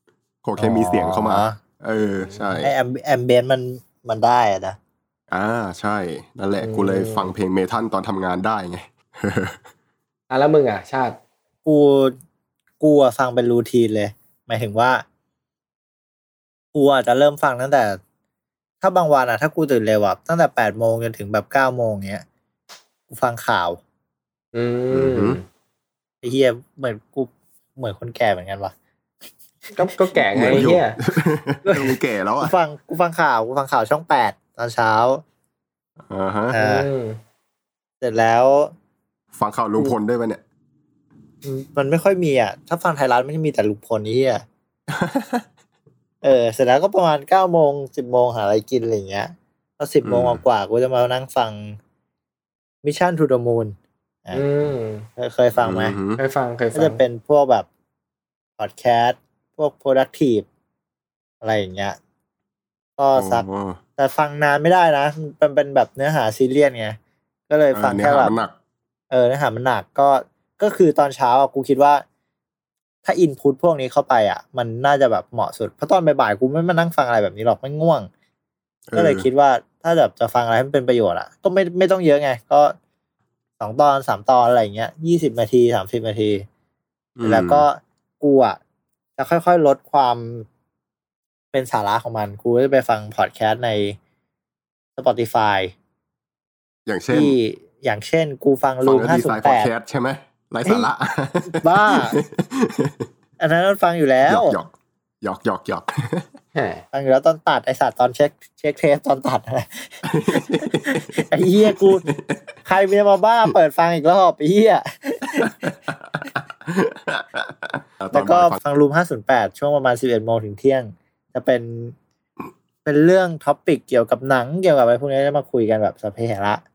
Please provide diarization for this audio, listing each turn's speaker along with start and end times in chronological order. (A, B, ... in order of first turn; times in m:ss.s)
0:00.4-0:02.7 A
0:00.6-0:01.6 B
0:02.6-0:04.8 B
0:05.3-0:09.6 A
0:06.6-0:07.3 C
0:10.3-0:11.2 C
0:11.6-0:12.1 B
0:12.8-0:15.0 B
0:16.7-0:18.0 B
0:18.8-0:22.2 B
0:23.1-0:23.8 B
0:24.5-0:25.4 C
0:24.9-0:25.4 A
0:26.2-0:28.7 B
0:29.7-0:31.0 C
0:30.3-0:32.6 A
0:31.6-0:35.2 B
0:36.1-0:36.6 A
0:36.5-0:36.9 B
0:36.6-0:37.2 C
0:38.0-0:38.7 B
0:39.3-0:40.4 A
0:41.4-0:44.4 B
0:44.9-0:45.4 A
0:46.2-0:51.8 B
0:50.0-0:50.4 A
0:52.8-0:54.5 B
0:54.3-0:55.1 C
0:55.2-0:56.0 B
0:55.6-0:56.2 A
0:56.2-0:57.0 C
0:56.7-0:57.7 B
0:58.6-1:00.5 B
1:01.4-1:02.0 B
1:03.0-1:03.4 B
1:03.2-1:03.8 A
1:04.0-1:07.0 B
1:07.5-1:08.4 B
1:07.7-1:08.5 A
1:09.1-1:12.0 B
1:13.0-1:18.1 B
1:18.9-1:19.3 A
1:18.9-1:22.8 B
1:23.6-1:26.5 B
1:27.2-1:27.7 A
1:27.2-1:28.6 B
1:29.2-1:30.5 B
1:31.5-1:34.0 B
1:35.0-1:35.7 B
1:36.9-1:37.4 A
1:37.1-1:39.7 B
1:38.8-1:43.0 A
1:40.6-1:40.9 B
1:41.5-1:42.2 B
1:43.4-1:44.6 B
1:44.3-1:44.7 A
1:45.2-1:46.3 A
1:46.6-1:46.8 C
1:46.9-1:52.0 B
1:50.0-1:51.2 A
1:51.7-1:52.4 A
1:52.6-1:55.6 B
1:55.4-1:58.6 A
1:58.1-2:02.0 B
2:02.8-2:06.6 B